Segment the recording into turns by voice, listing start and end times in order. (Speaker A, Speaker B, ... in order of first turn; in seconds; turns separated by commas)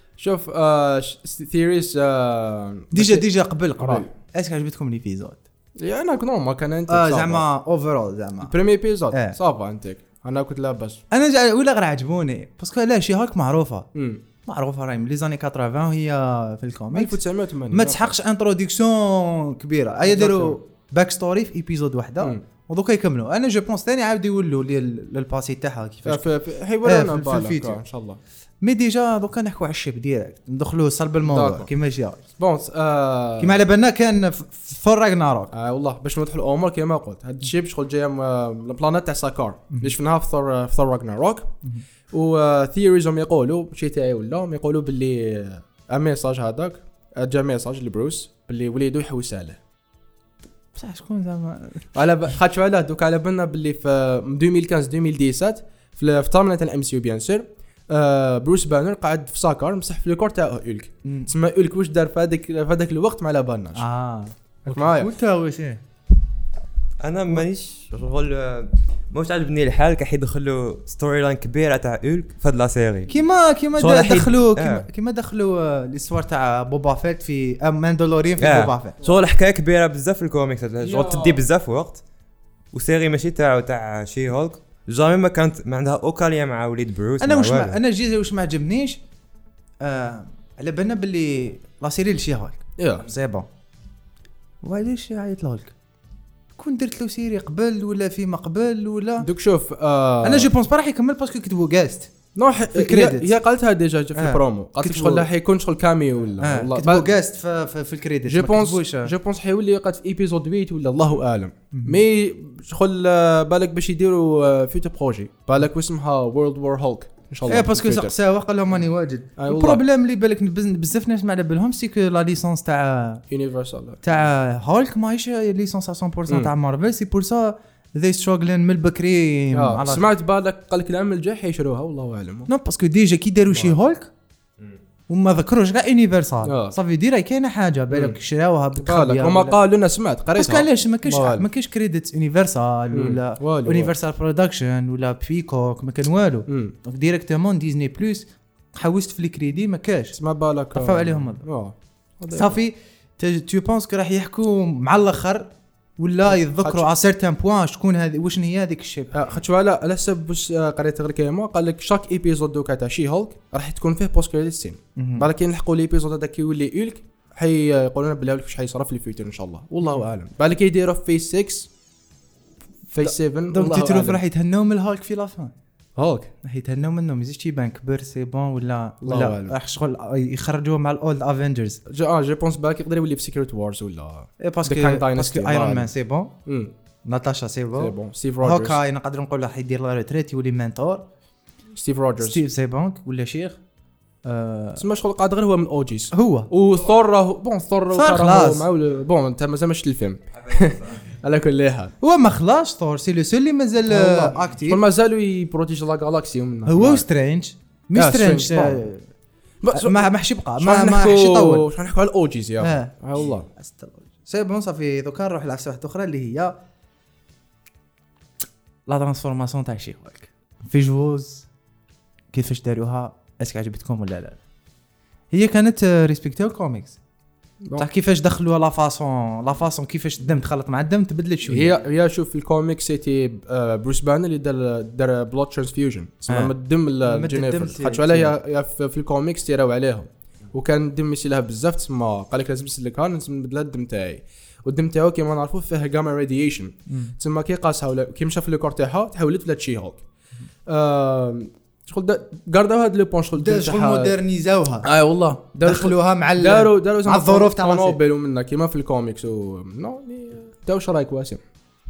Speaker A: 0.2-4.1, Speaker B: 2.9-5.4, Speaker A: 5.8-7.5, Speaker B: 6.9-8.5, Speaker A: 8.4-11.0, Speaker B: 9.1-9.4, Speaker B: 11.1-13.9, Speaker A: 13.9-14.2, Speaker B: 14.4-17.2, Speaker A: 16.9-18.1, Speaker B: 17.7-26.2, Speaker A: 20.1-20.6, Speaker A: 26.1-28.2, Speaker B: 26.8-27.8, Speaker B: 28.6-32.2, Speaker A: 31.2-31.7, Speaker A: 32.4-33.6, Speaker B: 33.4-35.5, Speaker A: 35.5-41.5, Speaker A: 42.1-49.6, Speaker B: 50.8-51.9, Speaker A: 51.9-63.9, Speaker B: 61.0-61.3, Speaker B: 63.8-65.8, Speaker A: 64.7-65.1, Speaker C: 67.0-73.1, Speaker B: 73.1-79.0, Speaker A: 73.8-74.3, Speaker C: 73.8-74.9, Speaker C: 78.4-82.0, Speaker A: 80.8-81.4, Speaker C: 82.7-87.8, Speaker B: 87.2-89.0, Speaker B: 89.8-93.5, Speaker A: 92.8-93.0, Speaker B: 94.6-95.7, Speaker B: 96.5-99.3, Speaker A: 99.2-100.5, Speaker B: 100.2-102.1, Speaker A: 102.4-107.1, Speaker B: 102.7-103.3, Speaker B: 104.2-105.3, Speaker B: 106.4-109.1, Speaker A: 108.3-118.1, Speaker B: 111.7-112.0, Speaker B: 117.5-123.2, Speaker A: 119.4-119.8, Speaker A: 123.3-124.0, Speaker B: 124.0-130.1, Speaker A: 126.3-126.5, Speaker A: 129.5-132.5, Speaker B: 132.5-134.1, Speaker B: 135.1-139.6, Speaker A: 136.4-136.8, Speaker A: 137.9-138.2, Speaker A: 138.8-141.5, Speaker B: 140.3-150.2, Speaker A: 142.9-143.9, Speaker A: 146.5-146.7, Speaker A: 150.2-152.6, Speaker B: 150.7-151.5, Speaker B: 152.3-159.2, Speaker A: 156.4-156.9, Speaker A: 159.1-171.7, Speaker B: 165.0-165.3, Speaker A: 172.9-174.2, Speaker B: 173.0-175.5, Speaker A: 176.0-176.3, Speaker B: 176.4-181.8, Speaker A: 179.0-179.6, Speaker A: 181.9-185.9, Speaker B: 184.4-186.3, Speaker A: 186.5-186.7, Speaker B: 187.1-191.1, Speaker A: 187.8-188.8, Speaker A: 191.7-192.4, Speaker B: 192.2-193.6, Speaker B: 194.2-194.8, Speaker A: 194.8-201.9, Speaker B: 196.1-196.5, Speaker B: 197.9-198.7, Speaker C: 200.4-201.0, Speaker B: 202.0-204.8, Speaker A: 203.8-207.1, Speaker B: 206.7-209.1, Speaker A: 207.9-208.9, Speaker A: 209.6-213.5, Speaker B: 209.7-211.7, Speaker B: 212.6-212.9, Speaker B: 213.6-216.6, Speaker B: 218.9-221.5, Speaker B: 222.3-224.4, Speaker B: 225.3-227.0, Speaker A: 227.6-227.9, Speaker B: 227.8-231.7, Speaker A: 231.5-250.0, Speaker B: 236.3-238.3, Speaker B: 246.9-247.1, Speaker A: 250.7-254.2, Speaker B: 253.4-254.9, Speaker A: 254.8-261.4, Speaker B: 255.6-258.0